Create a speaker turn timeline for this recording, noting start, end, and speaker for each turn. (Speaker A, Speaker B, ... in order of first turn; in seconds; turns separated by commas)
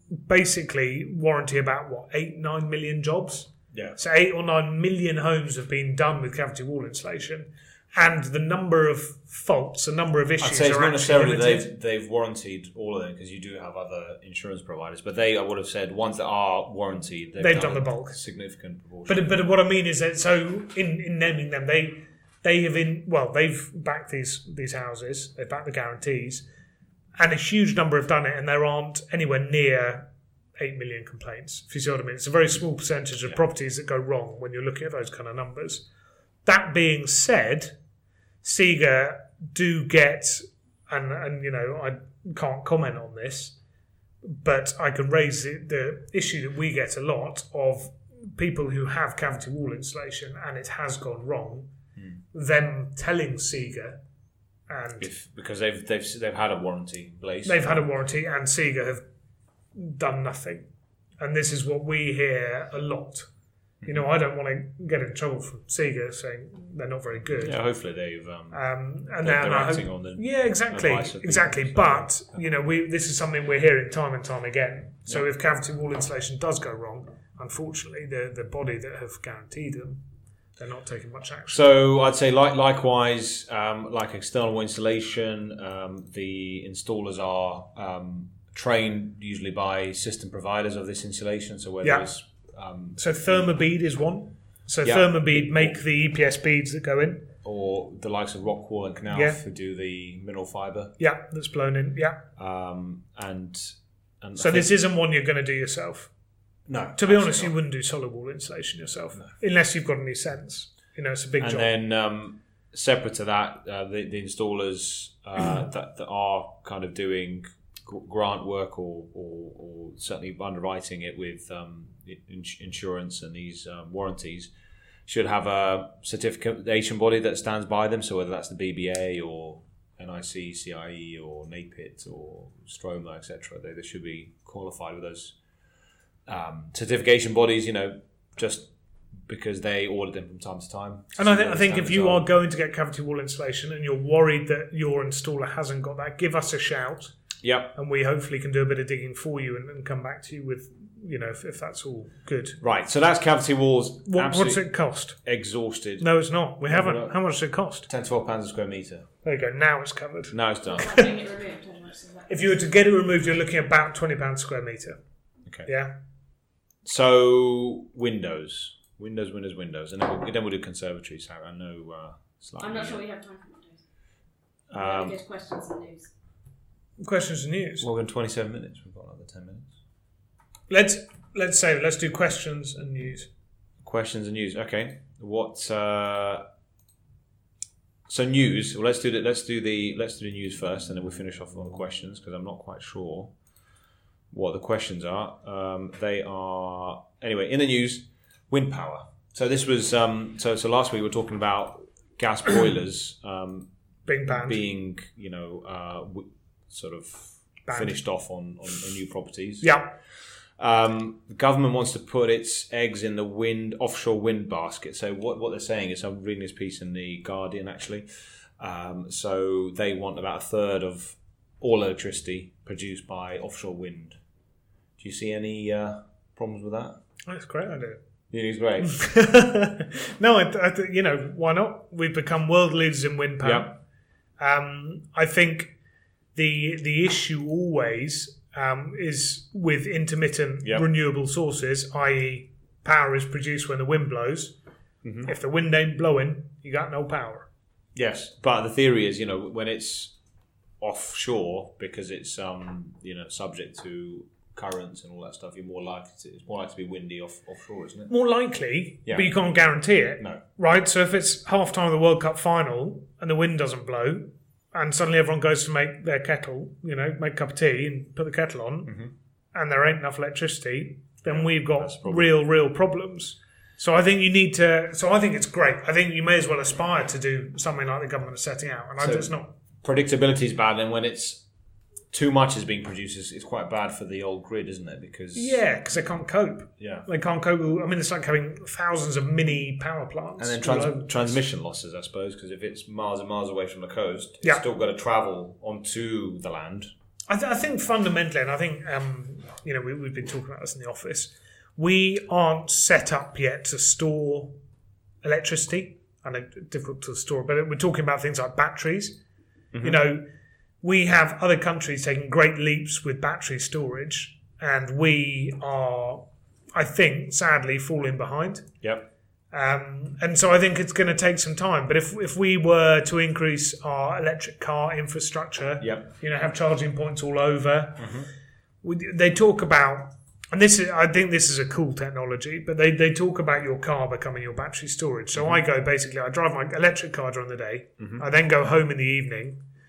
Speaker A: 0.3-11.7, Speaker B: 3.7-4.0, Speaker B: 10.4-19.3, Speaker A: 17.4-18.2, Speaker A: 19.1-26.5, Speaker A: 27.2-35.9, Speaker A: 36.5-37.8, Speaker A: 38.4-43.6, Speaker A: 44.2-51.7, Speaker A: 52.3-54.0, Speaker A: 54.7-55.1, Speaker B: 55.0-57.8, Speaker A: 57.5-59.0, Speaker A: 59.8-60.7, Speaker A: 61.2-63.3, Speaker A: 63.8-67.6, Speaker B: 67.3-68.6, Speaker A: 68.5-80.0, Speaker B: 69.2-72.2, Speaker A: 80.6-81.6, Speaker B: 81.5-93.3, Speaker A: 93.0-97.3, Speaker B: 94.8-95.8, Speaker B: 97.4-100.9, Speaker A: 99.1-99.4, Speaker A: 101.0-102.2, Speaker B: 102.4-104.7, Speaker A: 104.4-106.1, Speaker B: 106.7-107.5, Speaker A: 107.0-111.7, Speaker B: 111.4-124.5, Speaker B: 125.1-135.4, Speaker B: 136.3-138.7, Speaker B: 139.2-142.3, Speaker A: 141.2-147.2, Speaker B: 147.4-147.7, Speaker A: 147.7-152.6, Speaker B: 152.6-154.7, Speaker A: 154.1-155.2, Speaker B: 155.2-156.1, Speaker A: 156.0-157.9, Speaker B: 156.7-157.2, Speaker B: 157.9-159.1, Speaker A: 159.2-161.1, Speaker B: 160.3-160.9, Speaker C: 160.7-162.6, Speaker A: 162.3-165.0, Speaker A: 165.7-166.0, Speaker B: 166.8-173.0, Speaker C: 172.6-173.8, Speaker B: 174.7-175.2, Speaker C: 174.7-176.1, Speaker A: 177.0-177.9, Speaker B: 177.8-179.7, Speaker A: 180.7-183.3, Speaker B: 183.8-186.4, Speaker B: 188.1-193.3, Speaker B: 194.3-203.7, Speaker A: 204.1-204.7, Speaker B: 204.3-209.7, Speaker A: 207.7-208.0, Speaker A: 209.6-209.9, Speaker B: 210.6-218.1, Speaker B: 218.6-224.2, Speaker B: 225.0-227.0, Speaker A: 227.3-228.0, Speaker B: 228.3-228.9, Speaker A: 228.8-233.8, Speaker B: 233.4-233.7, Speaker A: 234.4-235.7, Speaker A: 236.3-244.6, Speaker B: 245.0-245.3, Speaker A: 245.2-247.5, Speaker B: 247.9-250.1, Speaker B: 250.8-258.1, Speaker A: 258.1-269.0, Speaker B: 268.9-269.1, Speaker A: 269.5-279.5, Speaker B: 271.3-272.3, Speaker B: 279.0-279.3, Speaker B: 279.8-281.4, Speaker B: 282.1-285.6, Speaker A: 285.3-291.4, Speaker B: 286.8-287.1, Speaker B: 290.4-296.9, Speaker A: 297.3-304.6, Speaker A: 305.2-309.2, Speaker B: 309.7-310.0, Speaker A: 309.8-310.2, Speaker A: 310.8-318.7, Speaker B: 318.8-319.1, Speaker A: 319.5-328.2, Speaker B: 325.8-326.1, Speaker B: 328.0-328.3, Speaker A: 328.8-339.6, Speaker B: 338.0-338.2